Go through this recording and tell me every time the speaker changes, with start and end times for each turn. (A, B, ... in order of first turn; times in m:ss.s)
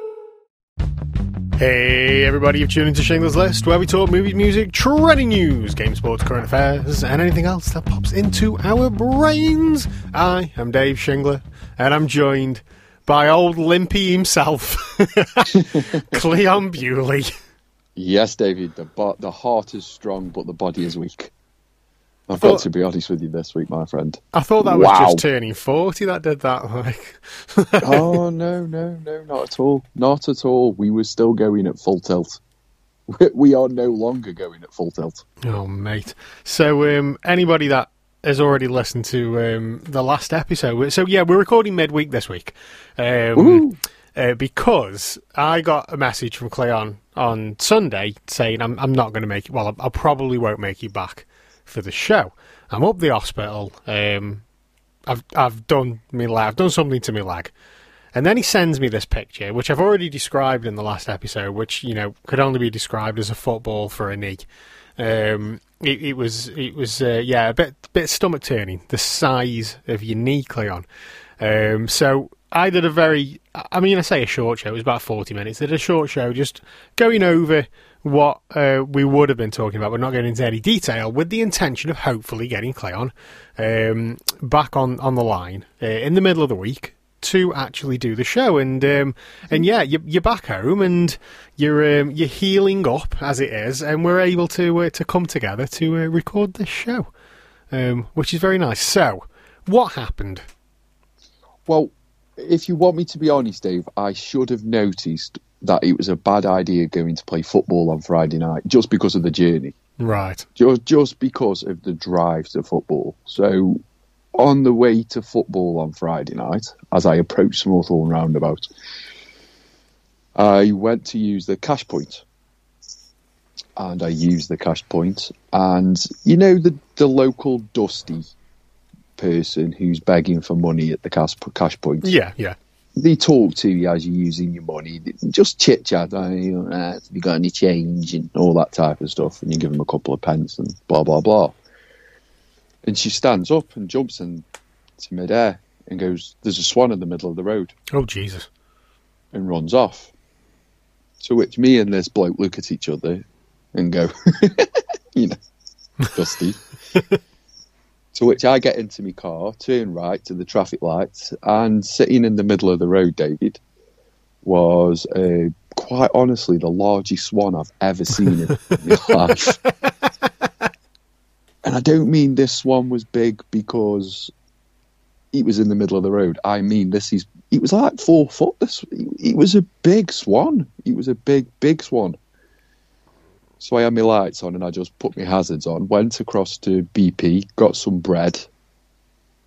0:01.6-0:17.3 A
0:15.5-0:16.2 B
0:18.0-0:21.3 B
0:22.3-0:25.2 B
0:22.3-0:22.6 A
0:24.3-0:28.2 A
0:27.8-0:32.4 B
0:33.1-0:35.2 B
0:35.4-0:54.4 A
0:43.4-0:43.8 B
0:55.1-0:57.5 A
0:58.1-1:04.5 A
1:05.0-1:10.8 A
1:11.4-1:37.1 A
1:37.7-1:40.4 A
1:41.7-1:49.7 B
1:50.0-1:50.4 A
1:50.6-1:53.8 B
1:54.3-1:58.7 B
2:00.3-2:02.2 B
2:03.8-2:08.3 B
2:09.2-2:12.1 B
2:12.0-2:12.6 A
2:13.0-2:21.6 B
2:22.8-2:24.4 B
2:25.0-2:27.7 B
2:27.9-2:28.5 A
2:29.3-2:30.1 B
2:31.2-2:35.4 B
2:36.1-2:36.6 B
2:38.1-2:43.6 B
2:44.4-2:49.6 B
2:48.5-2:50.3 A
2:51.6-2:54.3 B
2:55.3-3:02.2 B
3:03.6-3:08.5 B